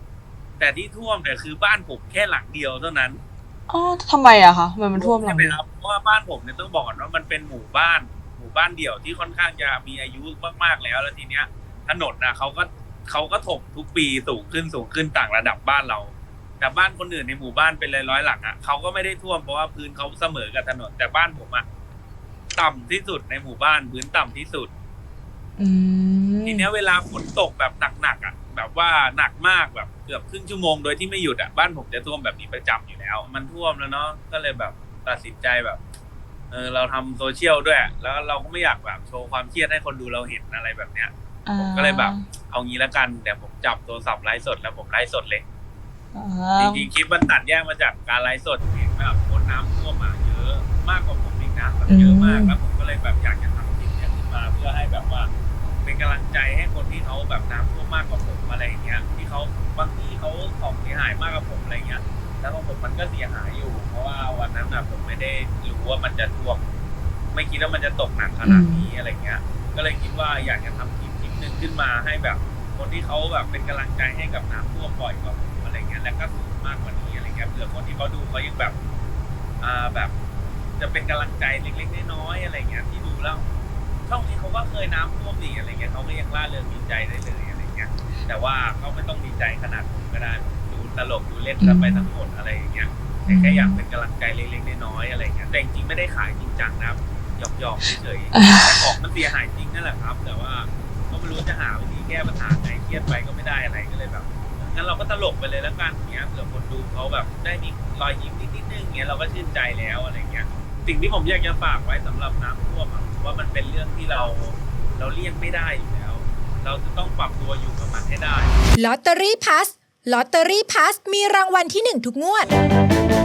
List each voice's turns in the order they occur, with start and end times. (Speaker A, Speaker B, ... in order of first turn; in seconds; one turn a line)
Speaker A: 0.6-3.2
Speaker B: 3.7-5.6
Speaker A: 5.0-21.7
Speaker A: 22.6-24.7
Speaker B: 25.6-26.7
Speaker A: 26.4-35.8
Speaker A: 36.5-45.4
Speaker B: 41.5-42.2
Speaker B: 46.1-46.8
Speaker A: 46.6-55.3
Speaker B: 51.9-52.6
Speaker A: 55.8-66.6
Speaker A: 67.3-78.8
Speaker B: 68.4-68.9
Speaker A: 79.6-80.1
Speaker A: 80.8-83.5
Speaker A: 84.1-118.5
Speaker B: 91.6-92.0
Speaker B: 93.3-93.8
Speaker B: 98.3-98.7
Speaker C: 118.8-122.5